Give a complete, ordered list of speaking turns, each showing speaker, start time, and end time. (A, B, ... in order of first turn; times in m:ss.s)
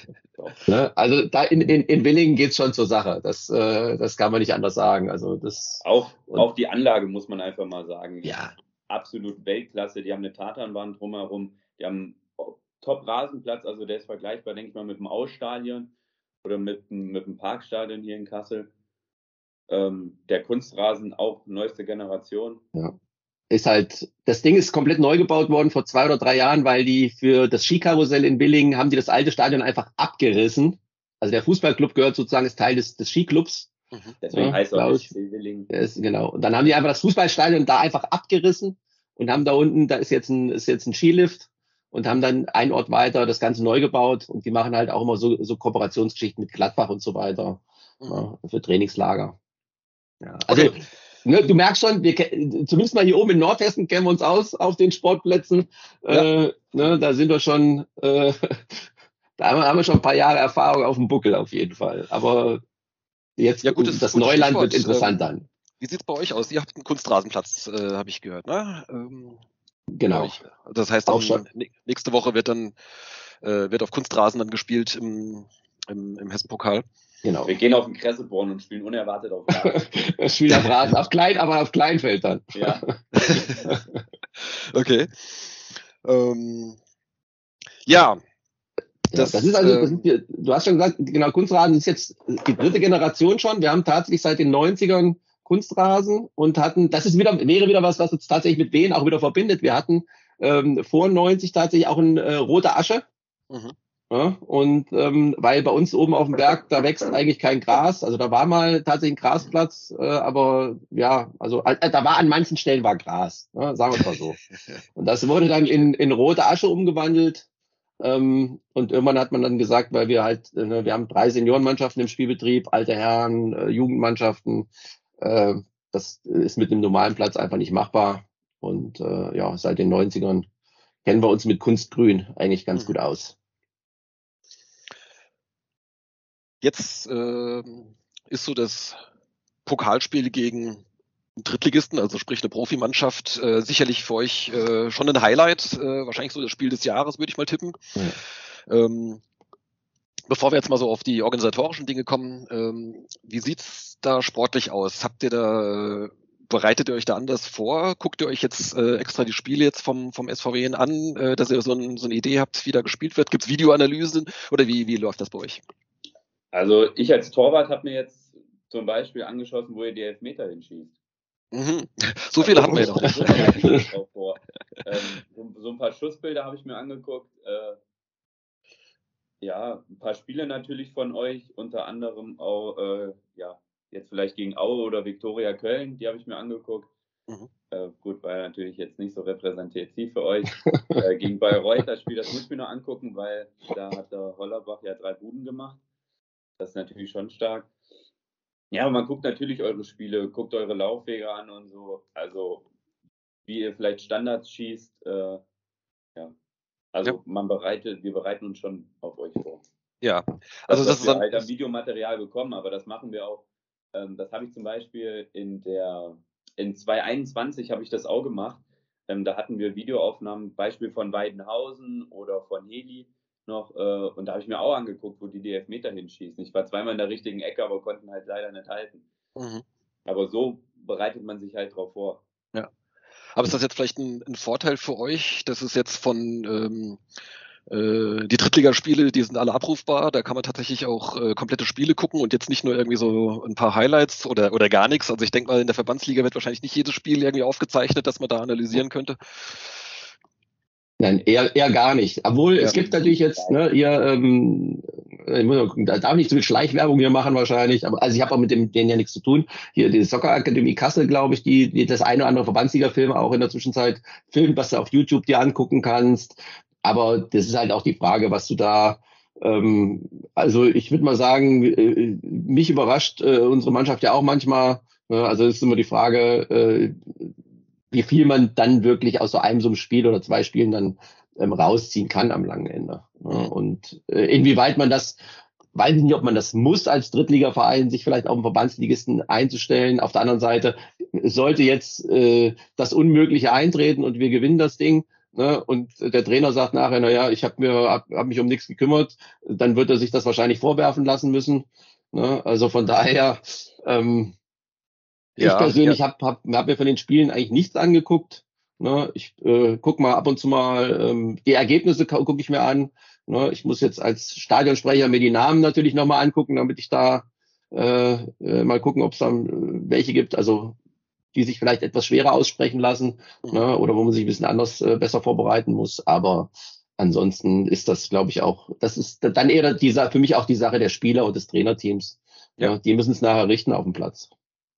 0:00.4-0:00.7 A
0:00.7-0:06.5 B
0:05.8-0:15.9 A
0:08.2-0:08.5 B
0:16.4-0:18.7 A
0:19.7-0:22.6 A
0:23.5-0:33.7 B
0:34.2-0:35.7 A
0:34.3-0:35.1 B
0:35.7-0:49.4 B
0:48.0-0:48.3 C
0:50.2-1:02.6 B
0:50.5-0:50.8 C
1:03.4-1:05.5 B
1:03.6-1:05.3 C
1:05.8-1:09.4 C
1:09.9-1:10.4 B
1:10.1-1:12.8 C
1:11.1-1:11.4 B
1:13.4-1:16.8 C
1:17.2-1:17.5 B
1:17.4-1:19.9 A
1:19.5-1:24.0 B
1:22.5-1:23.4 A
1:23.2-1:23.6 C
1:24.4-1:26.8 C
1:27.9-1:28.2 C
1:29.1-1:43.0 B
1:29.1-1:30.0 C
1:43.5-1:43.8 C
1:44.1-1:54.4 B
1:54.0-1:54.8 C
1:55.0-1:57.4 B
1:58.0-2:10.5 B
2:11.0-2:13.4 B
2:16.6-2:19.0 C
2:19.7-2:20.8 C
2:21.4-2:27.9 C
2:28.7-2:29.2 C
2:30.3-2:45.6 C
2:46.5-2:51.0 A
2:51.5-2:53.6 C
2:52.4-2:57.8 A
2:52.6-2:53.8 B
2:59.4-3:06.9 A
3:07.7-3:15.8 A
3:10.6-3:11.0 B
3:16.6-3:17.7 A
3:18.7-3:22.7 A
3:23.5-3:25.4 A
3:26.9-3:29.6 A
3:30.0-3:31.3 C
3:30.7-3:49.0 A
3:49.4-3:49.6 C
3:50.1-3:52.2 A
3:53.4-3:57.0 C
3:57.7-4:09.8 C
4:11.0-4:37.3 B
4:12.8-4:13.6 A
4:37.9-4:45.2 B
4:45.7-5:04.4 B
5:05.4-5:20.8 B
5:05.4-5:06.0 C
5:21.4-5:34.3 B